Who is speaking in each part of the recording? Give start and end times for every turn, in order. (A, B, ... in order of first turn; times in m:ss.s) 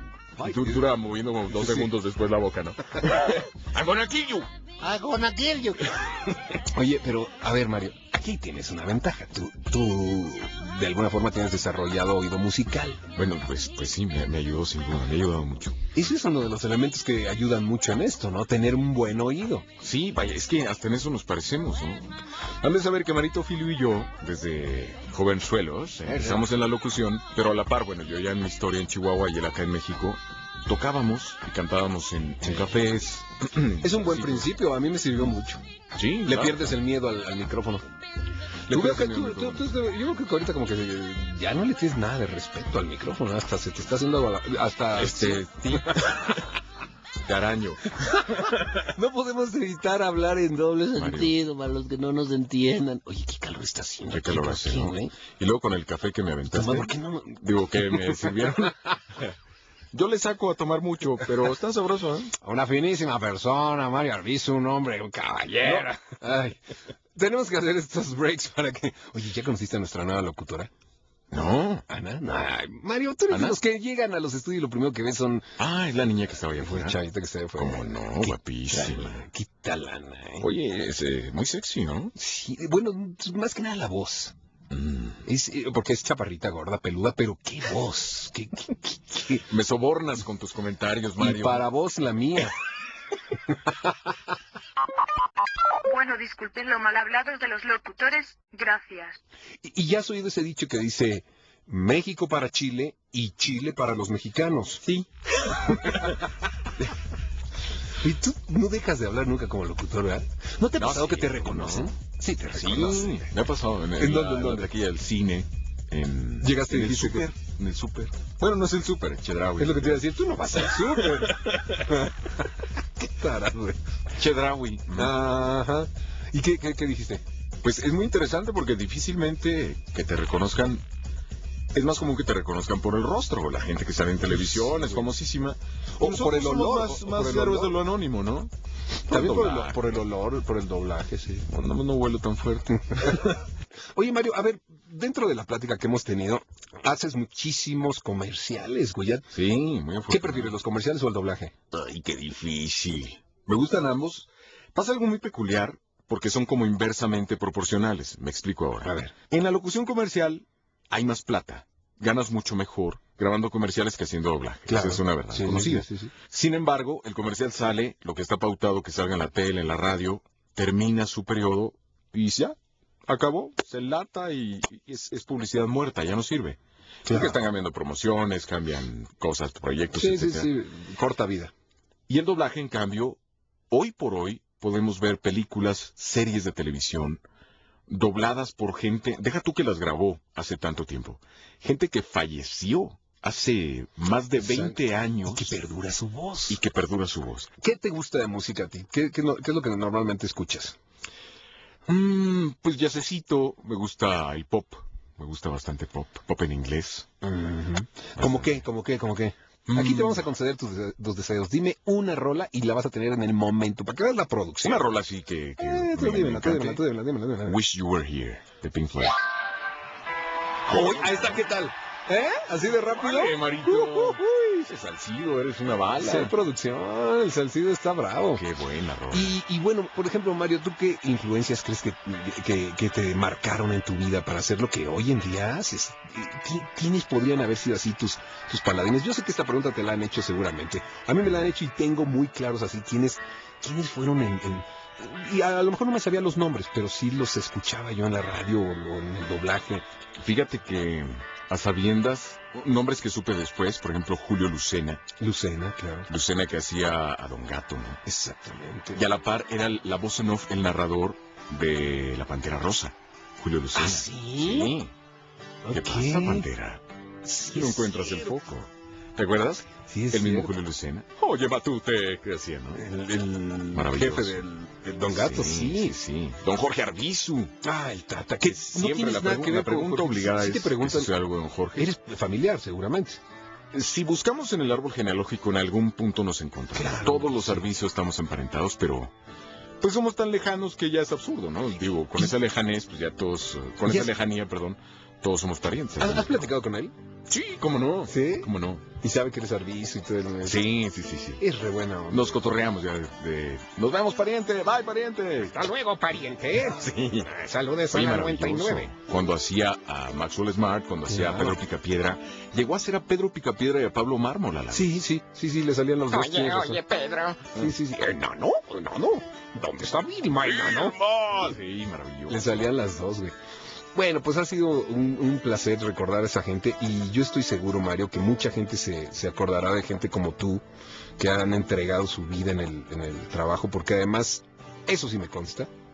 0:00.4-0:04.5 A
0:00.4-0:00.8 B
0:01.5-0:01.9 B
0:04.8-0:05.2 B
0:04.9-0:05.8 C
0:06.5-0:13.0 B
0:13.1-0:15.8 A
0:15.9-0:19.6 B
0:19.8-0:34.5 A
0:26.1-0:26.4 B
0:33.8-0:35.6 B
0:35.9-0:36.7 A
0:36.2-0:37.9 B
0:38.7-0:39.7 A
0:38.7-0:46.5 B
0:44.9-0:46.4 A
0:47.2-0:47.9 A
0:48.0-0:55.1 B
0:50.9-0:51.4 A
0:54.1-0:59.3 A
0:56.5-0:58.9 B
0:59.9-1:02.3 A
1:02.4-1:06.6 B
1:07.2-1:10.7 B
1:11.3-1:11.8 A
1:11.9-1:15.5 B
1:13.3-1:13.6 A
1:15.6-1:17.0 A
1:16.6-1:20.5 B
1:17.6-1:19.2 A
1:20.4-1:22.1 A
1:22.1-1:24.3 B
1:24.7-1:25.2 A
1:25.2-1:29.4 B
1:29.5-1:31.6 A
1:31.2-1:32.5 B
1:33.5-1:34.1 B
1:35.8-1:39.2 C
1:39.6-1:44.9 B
1:45.6-1:46.2 B
1:48.0-1:53.3 B
1:50.7-2:00.0 A
1:54.0-1:54.7 B
1:56.4-1:57.3 B
1:59.6-2:03.8 B
2:00.6-2:01.9 A
2:04.1-2:05.1 A
2:04.9-2:07.2 B
2:07.6-2:10.8 A
2:11.7-2:18.5 A
2:14.2-2:15.1 B
2:16.0-2:17.7 B
2:19.1-2:19.8 A
2:19.1-2:21.5 B
2:21.5-2:23.2 A
2:22.9-2:29.2 B
2:29.3-2:30.6 A
2:30.1-2:31.5 B
2:31.7-2:52.6 A
2:38.8-2:39.1 B
2:44.7-2:46.1 B
2:53.1-3:00.5 A
2:57.1-2:57.3 B
2:59.9-3:01.5 B
3:02.1-3:03.2 A
3:03.7-3:07.2 A
3:07.9-3:15.6 A
3:14.4-3:16.6 B
3:16.5-3:17.5 A
3:17.6-3:20.8 B
3:21.9-3:27.1 A
3:27.2-3:34.8 B
3:28.2-3:28.6 A
3:29.7-3:30.3 A
3:34.6-3:36.8 A
3:35.6-3:37.6 B
3:37.4-3:39.2 A
3:40.7-3:44.2 B
3:40.7-3:41.4 A
3:42.8-3:46.3 A
3:46.0-3:48.4 B
3:48.4-3:49.4 A
3:49.1-4:09.8 B
4:10.2-4:15.0 A
4:15.2-4:16.1 B
4:16.1-4:18.0 A
4:18.0-4:19.0 B
4:18.9-4:24.9 A
4:23.7-4:24.8 B
4:25.6-4:26.5 B
4:25.7-4:26.8 A
4:27.2-4:28.3 B
4:27.5-4:32.8 A
4:29.9-4:30.5 B
4:32.8-4:36.0 B
4:33.7-4:34.4 A
4:35.0-4:37.5 A
4:37.6-4:41.1 B
4:38.4-4:41.9 A
4:41.8-4:43.2 B
4:43.7-4:49.1 A
4:46.7-4:47.7 B
4:49.8-4:56.4 A
4:53.8-4:54.1 B
4:56.0-4:56.9 B
4:57.3-4:58.9 A
4:58.1-5:00.6 B
5:00.4-5:01.4 A
5:01.4-5:02.4 B
5:02.1-5:05.6 A
5:05.4-5:08.9 B
5:06.7-5:07.3 A
5:07.9-5:15.0 A
5:11.1-5:11.6 B
5:14.7-5:16.8 B
5:16.2-5:17.7 A
5:17.5-5:21.0 B
5:20.4-5:22.7 A
5:22.3-5:23.3 B
5:23.9-5:30.6 B
5:31.2-5:35.7 B